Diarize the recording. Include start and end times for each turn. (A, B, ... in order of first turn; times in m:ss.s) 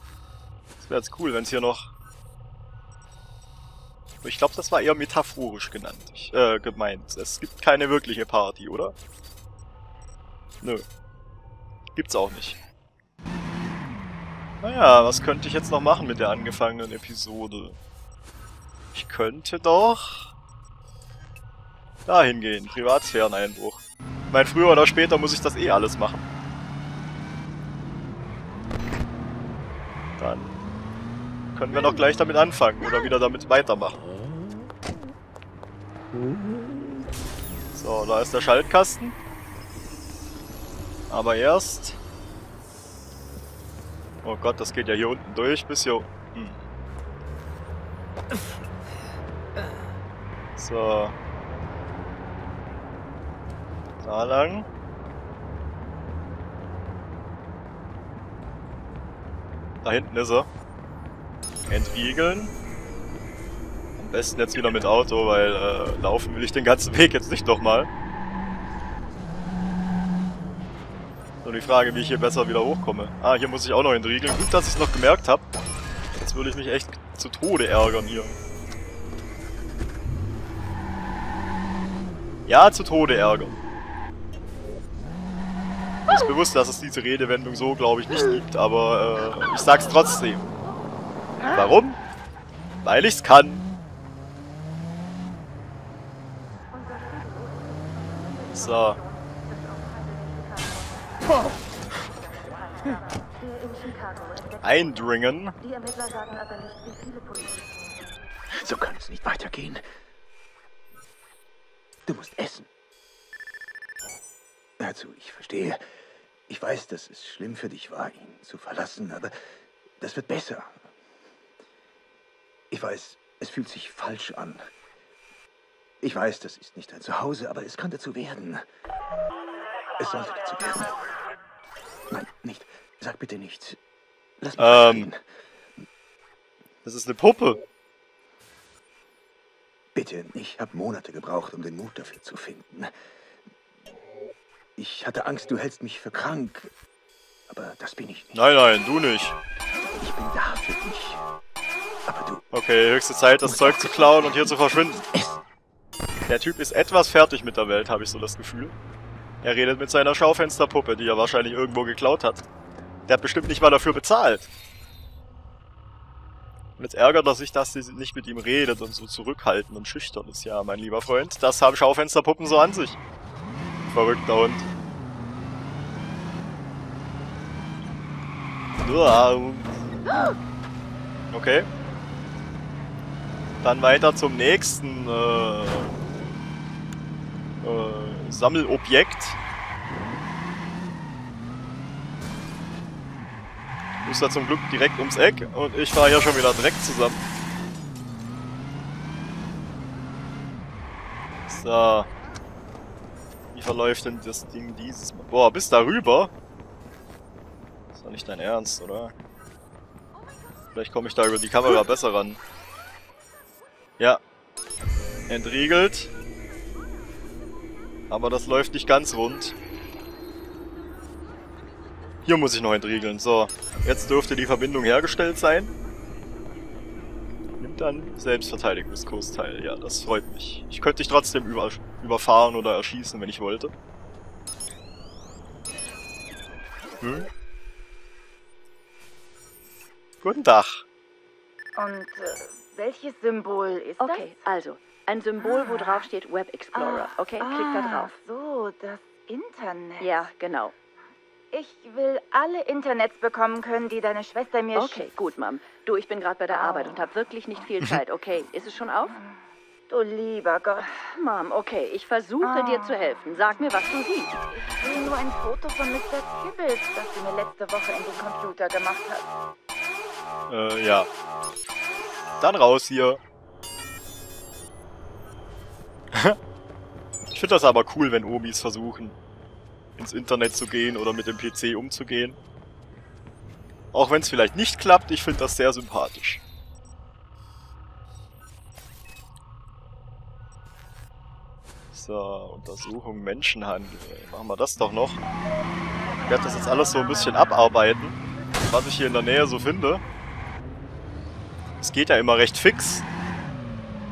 0:00.8-0:01.9 A
0:04.2-0:08.9 A
0:11.9-0:12.6 A
0:14.6-0:17.8 A
0:18.9-0:20.3 A
0:22.0-0:26.3 A
0:30.2-0:30.6 A
0:31.5-0:34.0 A
0:37.7-0:39.2 A
0:41.1-0:42.0 A
0:44.2-0:46.6 A
0:50.6-0:51.2 A
0:54.0-0:54.7 A
0:59.8-1:00.5 A
1:01.7-1:02.5 A
1:04.0-1:07.9 A
1:11.4-1:15.4 A
1:16.2-1:18.4 A
1:22.5-1:23.6 A
1:26.1-1:30.5 A
1:31.4-1:32.0 A
1:32.8-1:33.6 A
1:38.5-1:39.0 A
1:44.6-1:45.5 A
1:48.5-1:49.8 B
1:52.0-1:52.7 B
1:54.8-1:55.8 B
1:56.5-1:59.3 B
2:00.0-2:00.8 B
2:02.7-2:04.6 B
2:06.0-2:08.6 B
2:10.0-2:11.0 B
2:12.1-2:13.8 B
2:14.4-2:15.2 B
2:14.6-2:15.1 A
2:16.8-2:17.6 A
2:19.9-2:22.9 B
2:24.8-2:26.7 B
2:27.5-2:28.4 B
2:28.3-2:29.4 A
2:29.9-2:31.2 B
2:32.1-2:32.4 B
2:32.5-2:35.0 A
2:33.4-2:35.4 B
2:36.3-2:38.7 A
2:39.4-2:42.4 A
2:43.1-2:44.5 A
2:46.8-2:53.0 A
2:53.9-2:54.7 A
2:58.8-2:59.7 A
3:01.3-3:01.7 A
3:03.6-3:05.9 A
3:07.6-3:09.4 A
3:14.0-3:17.2 A
3:21.5-3:22.1 A
3:23.5-3:26.3 A
3:27.9-3:29.1 A
3:30.7-3:32.4 A
3:35.3-3:36.1 A
3:38.1-3:39.6 A
3:42.2-3:45.7 A
3:47.6-3:53.7 A
3:57.0-3:57.3 A
4:00.2-4:00.8 A
4:01.8-4:04.3 C
4:04.0-4:08.1 D
4:05.4-4:06.1 C
4:06.7-4:10.1 C
4:10.0-4:10.7 D
4:11.5-4:15.0 C
4:14.7-4:19.2 D
4:16.5-4:17.0 C
4:19.1-4:19.3 C
4:19.9-4:21.1 C
4:21.0-4:24.4 D
4:22.4-4:23.6 C
4:24.7-4:29.3 C
4:30.5-4:31.1 A
4:32.4-4:33.2 A
4:36.1-4:36.4 A
4:37.3-4:39.2 A
4:40.0-4:42.4 A
4:43.9-4:46.4 A
4:51.9-4:55.2 A
4:56.2-5:00.0 A
5:01.8-5:03.0 A